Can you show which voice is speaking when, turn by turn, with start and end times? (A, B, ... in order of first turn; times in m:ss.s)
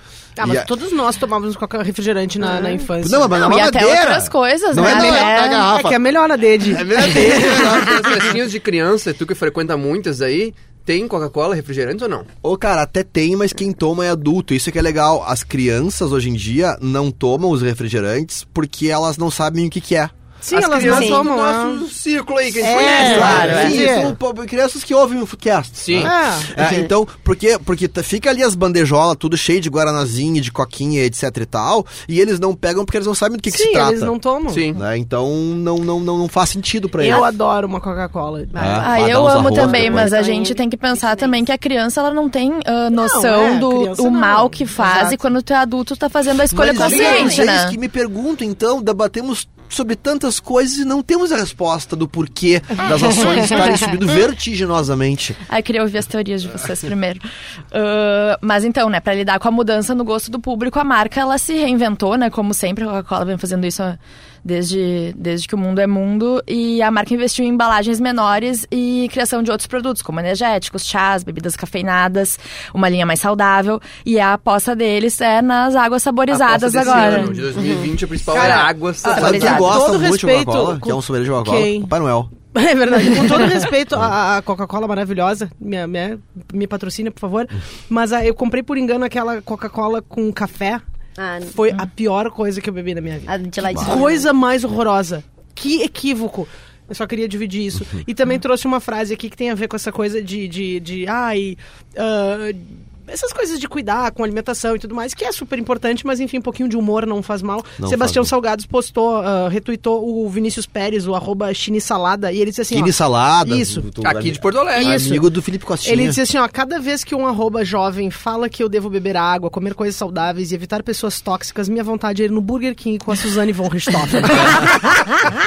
0:00.4-0:03.4 A
0:00.4-0:00.7 B
0:03.0-0:06.0 B
0:03.3-0:05.7 C
0:04.8-0:07.4 A
0:06.6-0:08.2 B
0:07.2-0:12.3 D
0:12.4-0:20.1 B
0:20.4-0:21.8 A
0:20.5-0:24.1 D
0:20.8-0:21.3 E
0:22.6-0:24.1 A
0:22.8-0:23.7 C
0:22.9-0:34.2 B
0:23.3-0:23.6 E
0:25.8-0:26.1 D
0:26.0-0:26.5 A
0:33.5-0:34.7 A
0:34.5-0:34.8 D
0:34.7-0:37.2 B
0:37.0-0:38.9 A
0:37.0-0:37.3 E
0:38.6-0:40.1 B
0:38.6-0:41.3 E
0:38.8-0:47.8 C
0:43.0-0:45.2 A
0:46.5-0:55.4 B
0:46.8-0:47.5 E
0:55.5-1:17.4 C
1:16.3-1:19.8 D
1:17.0-1:17.3 A
1:17.6-1:17.9 E
1:18.3-1:21.9 A
1:19.0-1:22.3 B
1:22.5-1:30.8 A
1:31.2-1:31.6 E
1:31.5-1:53.9 A
1:33.3-1:34.3 E
1:33.7-1:34.0 B
1:47.8-1:48.3 B
1:52.7-1:56.2 B
1:54.0-1:55.0 D
1:54.8-1:55.3 A
1:55.8-2:05.0 A